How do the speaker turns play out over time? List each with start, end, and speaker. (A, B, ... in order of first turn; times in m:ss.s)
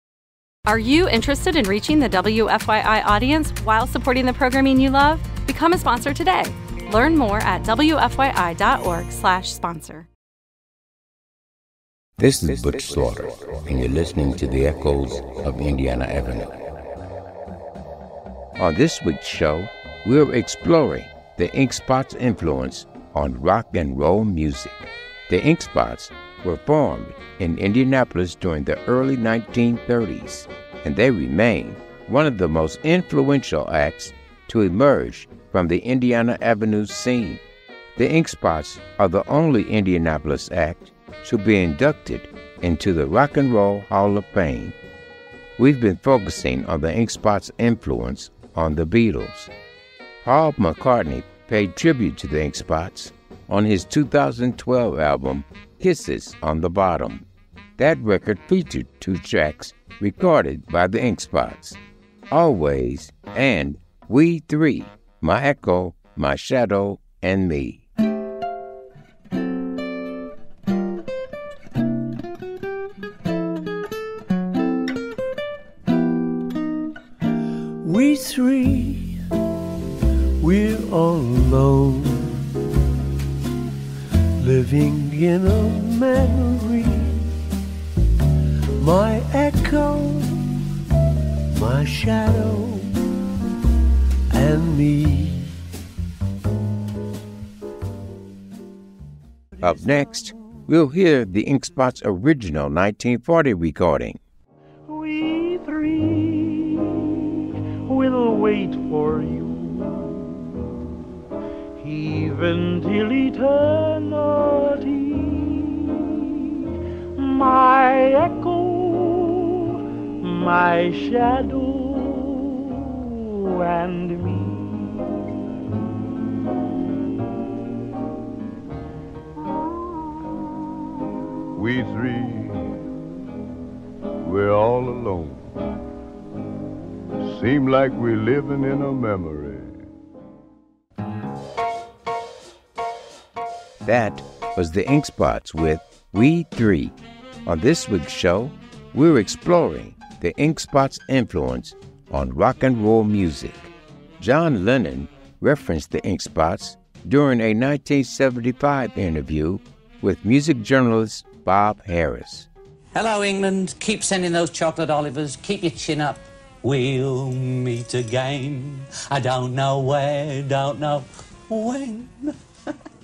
0:00.7-0:10.1 A
0:12.2-0:16.6 B
0:18.6-0:37.4 B
0:38.0-0:44.8 B
0:45.6-0:49.5 B
0:50.2-0:57.2 B
0:57.8-1:01.8 B
1:02.3-1:07.8 B
1:17.8-1:19.2 C
1:20.4-1:22.4 C
1:24.4-1:27.3 C
1:28.8-1:30.5 C
1:31.5-1:32.9 C
1:34.3-1:35.5 C
1:39.6-1:44.2 B
1:44.9-1:47.2 D
1:47.9-1:50.6 D
1:51.8-1:56.1 D
1:57.2-2:05.1 D
2:11.6-2:12.7 E
2:14.2-2:15.6 E
2:17.2-2:19.8 E
2:23.8-2:42.5 B
2:42.9-2:52.3 F